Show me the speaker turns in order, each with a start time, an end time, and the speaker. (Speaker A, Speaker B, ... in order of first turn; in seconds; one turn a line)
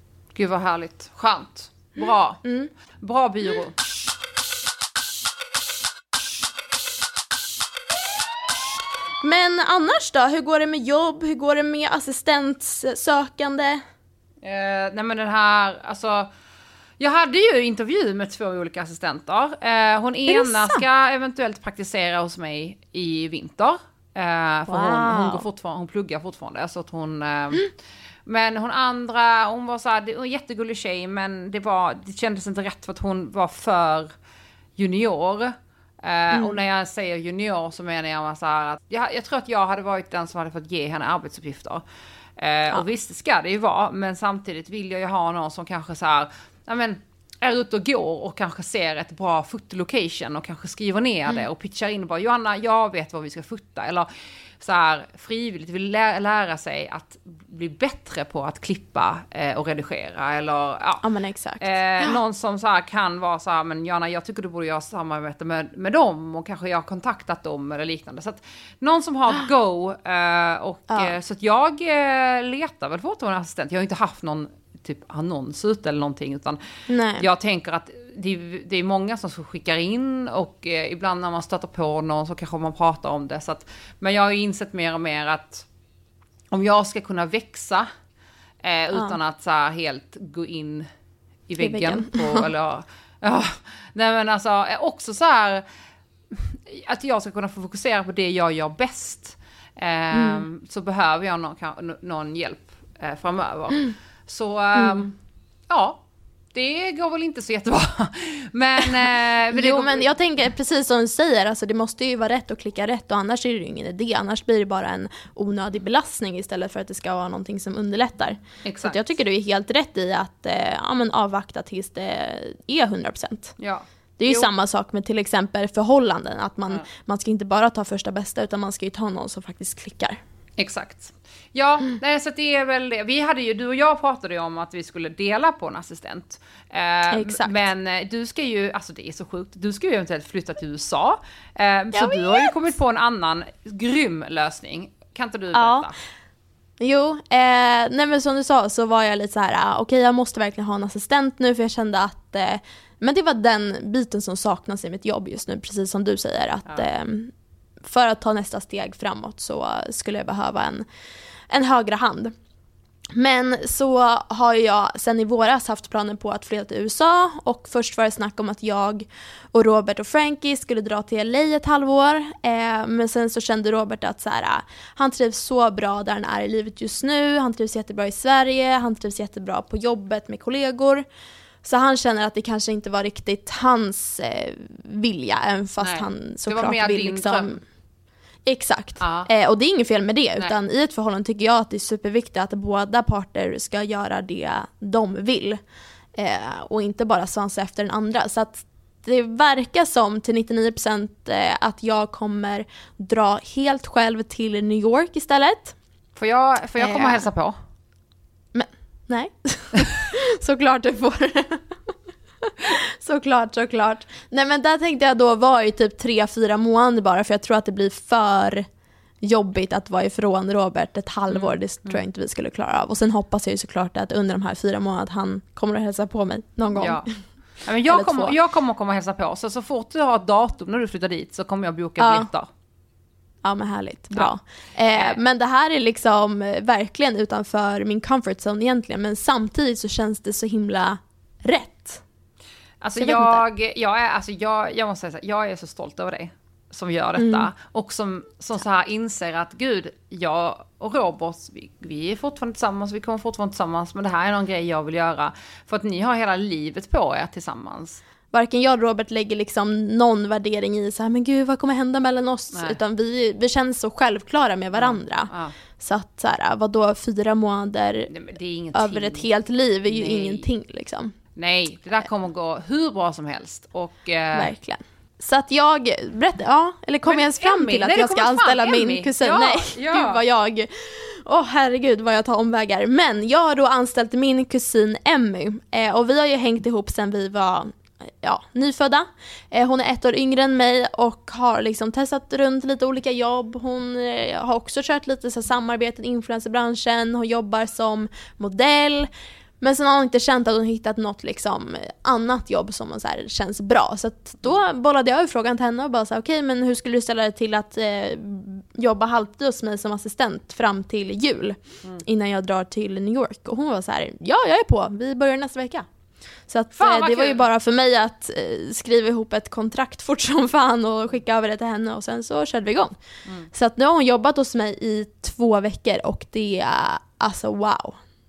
Speaker A: 0.3-2.4
Speaker B: 2.0-2.7
Speaker A: 3.0-3.8
Speaker B: 9.2-13.8
Speaker A: 14.4-16.3
Speaker A: 17.0-27.7
Speaker B: 20.3-20.8
Speaker B: 24.7-25.4
Speaker A: 28.2-34.1
Speaker A: 34.8-41.8
Speaker B: 36.3-36.6
Speaker A: 42.4-61.0
Speaker B: 61.0-62.1
Speaker A: 61.6-76.6
Speaker B: 70.9-71.2
Speaker B: 76.9-77.2
Speaker A: 77.2-85.7
Speaker A: 86.5-87.9
Speaker A: 88.6-90.9
Speaker A: 91.5-95.6
Speaker B: 91.6-92.5
Speaker A: 96.3-105.2
Speaker B: 100.1-100.4
Speaker B: 104.8-105.0
Speaker A: 105.7-110.1
Speaker B: 109.0-123.5
Speaker A: 118.6-119.0
Speaker A: 123.6-124.5
Speaker B: 124.2-130.2
Speaker A: 130.6-145.9
Speaker B: 137.1-137.6
Speaker B: 141.9-142.5
Speaker B: 145.5-145.9
Speaker B: 146.8-157.3
Speaker B: 157.8-160.8
Speaker B: 161.5-162.3
Speaker B: 163.1-181.0
Speaker B: 181.6-187.6
Speaker A: 185.8-187.6
Speaker B: 188.4-195.6
Speaker A: 189.0-189.3
Speaker B: 196.1-205.7
Speaker A: 206.2-207.6
Speaker B: 206.8-207.2
Speaker B: 208.5-211.9
Speaker B: 212.4-218.7
Speaker B: 219.2-227.2
Speaker A: 221.3-222.0
Speaker A: 226.7-227.1
Speaker A: 227.6-232.5
Speaker B: 227.8-228.3
Speaker B: 232.0-232.3
Speaker B: 233.4-242.0
Speaker A: 234.9-235.2
Speaker A: 242.8-258.0
Speaker B: 243.0-243.4
Speaker B: 247.2-247.5
Speaker B: 258.3-268.1
Speaker A: 262.5-262.8
Speaker A: 264.8-265.5
Speaker A: 268.1-269.3
Speaker B: 268.7-271.1
Speaker A: 269.9-270.5
Speaker A: 271.4-274.5
Speaker B: 274.3-299.1
Speaker A: 277.0-280.2
Speaker B: 299.6-315.9
Speaker B: 316.5-322.9
Speaker A: 316.8-317.4
Speaker B: 323.5-328.0